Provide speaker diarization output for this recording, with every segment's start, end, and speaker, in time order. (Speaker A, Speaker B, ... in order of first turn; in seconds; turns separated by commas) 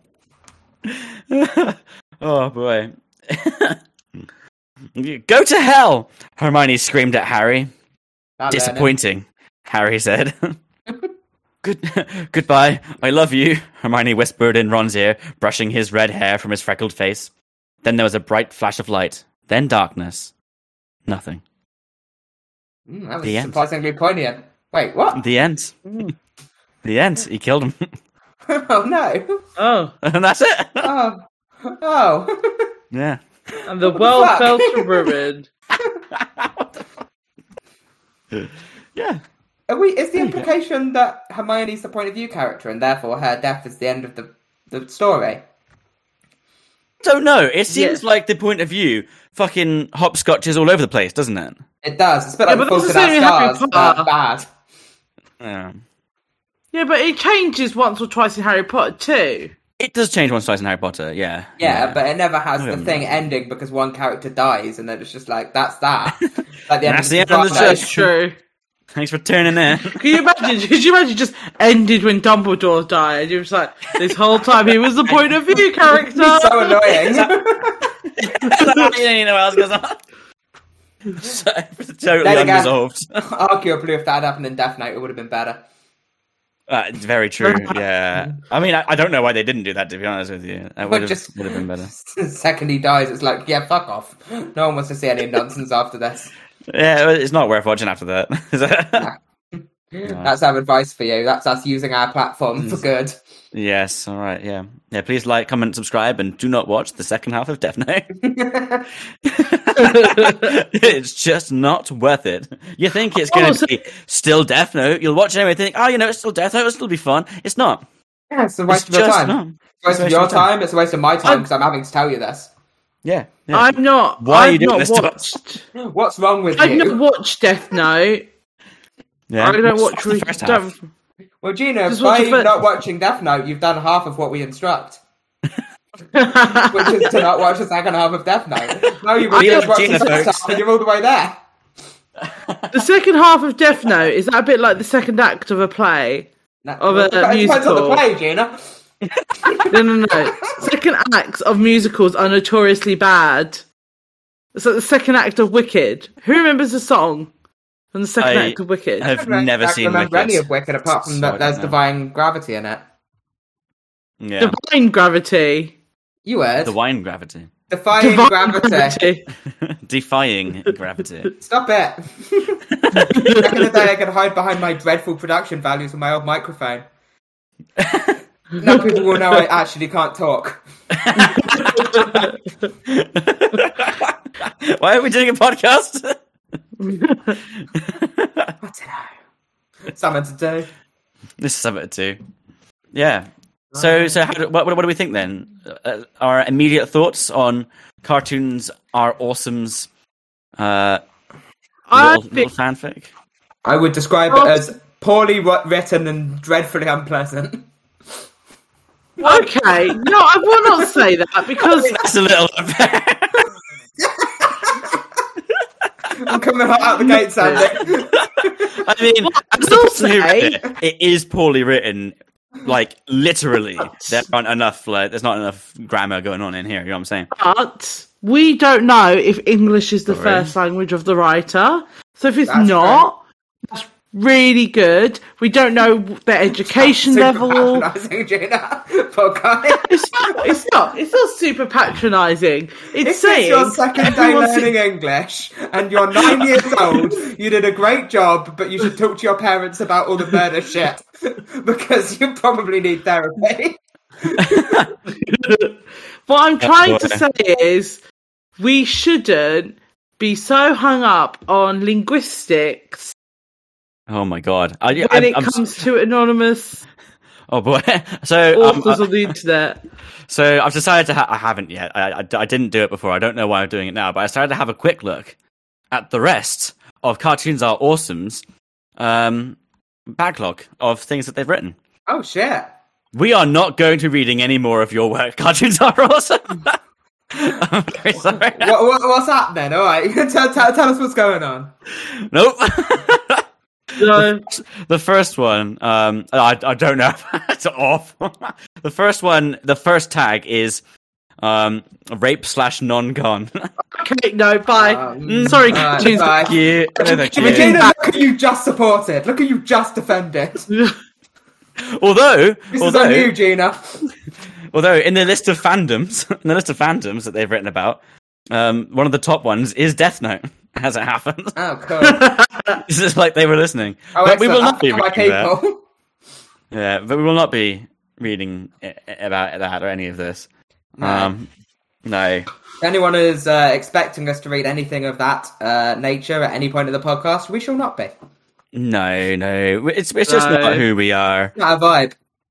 Speaker A: 0.8-3.8, Speaker A: 4.9-7.7, Speaker B: 8.4-8.9, Speaker A: 8.5-10.6, Speaker A: 11.6-17.3, Speaker A: 17.8-20.3, Speaker A: 21.1-21.4, Speaker B: 22.9-25.2, Speaker A: 23.2-23.6, Speaker A: 25.1-25.8, Speaker C: 25.8-26.1, Speaker A: 26.8-27.9, Speaker B: 28.5-29.4, Speaker C: 29.6-29.9, Speaker A: 30.0-30.9, Speaker B: 30.8-32.7, Speaker A: 32.9-33.2, Speaker B: 33.6-35.1, Speaker C: 33.7-35.5, Speaker A: 36.1-36.9, Speaker A: 38.3-39.2, Speaker B: 39.7-45.4, Speaker A: 40.2-40.5, Speaker A: 47.0-51.6, Speaker C: 47.7-48.0, Speaker B: 51.8-54.5, Speaker C: 52.5-54.1, Speaker A: 55.4-55.8, Speaker C: 56.7-59.5, Speaker A: 59.8-62.0, Speaker B: 61.6-68.0, Speaker A: 62.6-63.0, Speaker A: 66.8-68.1, Speaker C: 67.5-68.4, Speaker A: 69.0-70.5, Speaker C: 69.9-77.0, Speaker A: 74.0-75.6, Speaker B: 75.9-77.8, Speaker A: 77.0-77.3, Speaker A: 77.8-80.0, Speaker C: 78.4-79.0, Speaker A: 81.2-83.2, Speaker B: 82.2-85.6, Speaker A: 86.7-91.9, Speaker B: 90.8-96.3, Speaker A: 96.7-99.1, Speaker B: 99.0-103.2, Speaker A: 100.0-100.3, Speaker A: 103.5-108.1, Speaker B: 108.2-108.9, Speaker A: 109.2-117.8, Speaker C: 109.8-110.5, Speaker C: 113.2-113.7, Speaker B: 118.3-122.5, Speaker A: 118.7-120.5, Speaker A: 123.0-125.3, Speaker C: 123.5-125.7, Speaker B: 125.8-127.0, Speaker C: 126.6-128.2, Speaker A: 129.3-130.8, Speaker C: 129.4-130.7, Speaker B: 131.4-135.0, Speaker C: 131.9-132.5, Speaker C: 136.1-137.0, Speaker B: 136.7-141.4, Speaker A: 138.8-140.6, Speaker C: 139.3-140.1, Speaker A: 142.2-142.8, Speaker C: 142.7-146.3, Speaker B: 146.6-148.6, Speaker C: 146.8-148.0, Speaker A: 149.2-149.5, Speaker B: 149.4-149.8, Speaker C: 149.7-153.7, Speaker C: 154.6-157.3, Speaker C: 157.9-159.1, Speaker A: 158.2-161.8, Speaker B: 159.1-162.8, Speaker A: 164.2-164.6, Speaker C: 164.4-165.7, Speaker B: 166.2-166.7, Speaker A: 166.6-167.5, Speaker B: 167.7-169.0, Speaker C: 168.0-169.3, Speaker A: 169.5-171.3, Speaker B: 171.4-176.9, Speaker A: 172.7-173.5, Speaker C: 173.0-173.6, Speaker A: 177.8-178.2, Speaker B: 178.6-180.6, Speaker A: 180.9-182.3, Speaker C: 181.2-182.3, Speaker B: 181.3-182.0, Speaker A: 182.8-186.2, Speaker C: 186.8-187.4, Speaker A: 187.6-188.5, Speaker B: 188.6-189.1, Speaker B: 189.9-190.7, Speaker A: 191.4-192.2, Speaker A: 192.9-199.9, Speaker B: 193.7-194.2, Speaker A: 200.6-201.0, Speaker C: 201.9-202.5, Speaker A: 201.9-203.1, Speaker B: 203.7-207.7, Speaker C: 204.3-204.7, Speaker B: 209.2-209.5, Speaker C: 209.2-212.0, Speaker A: 211.6-213.5, Speaker B: 214.0-215.0, Speaker B: 216.1-218.8, Speaker C: 217.4-217.7, Speaker A: 217.6-227.3, Speaker C: 219.3-220.6, Speaker C: 223.8-224.2, Speaker C: 227.3-237.8, Speaker A: 230.1-230.5, Speaker B: 232.5-233.1, Speaker B: 236.7-240.6, Speaker C: 239.9-244.7, Speaker B: 243.0-254.9, Speaker A: 254.4-254.9, Speaker C: 255.1-258.0, Speaker A: 256.6-257.2, Speaker C: 258.6-263.1, Speaker A: 264.1-265.6, Speaker C: 265.0-266.8, Speaker A: 267.5-269.3, Speaker C: 268.5-269.8, Speaker A: 270.3-275.4, Speaker A: 275.9-278.4, Speaker A: 279.0-281.8, Speaker B: 282.1-282.7, Speaker A: 283.1-286.8, Speaker A: 287.3-288.7, Speaker B: 288.4-291.7, Speaker A: 292.0-293.4, Speaker C: 293.9-294.5, Speaker A: 294.0-300.8, Speaker A: 301.4-303.7, Speaker C: 303.9-307.9, Speaker B: 304.7-310.7, Speaker A: 305.2-307.8, Speaker C: 310.7-311.0, Speaker A: 311.8-313.3, Speaker B: 312.7-314.1, Speaker A: 314.7-321.6, Speaker B: 321.6-322.2, Speaker C: 322.0-322.8, Speaker A: 322.8-325.5, Speaker B: 324.1-325.8, Speaker A: 326.7-330.5, Speaker A: 331.0-331.5, Speaker B: 331.0-331.3, Speaker A: 332.1-332.5, Speaker B: 332.8-338.1, Speaker A: 338.7-341.5, Speaker C: 340.3-340.8, Speaker B: 341.6-342.2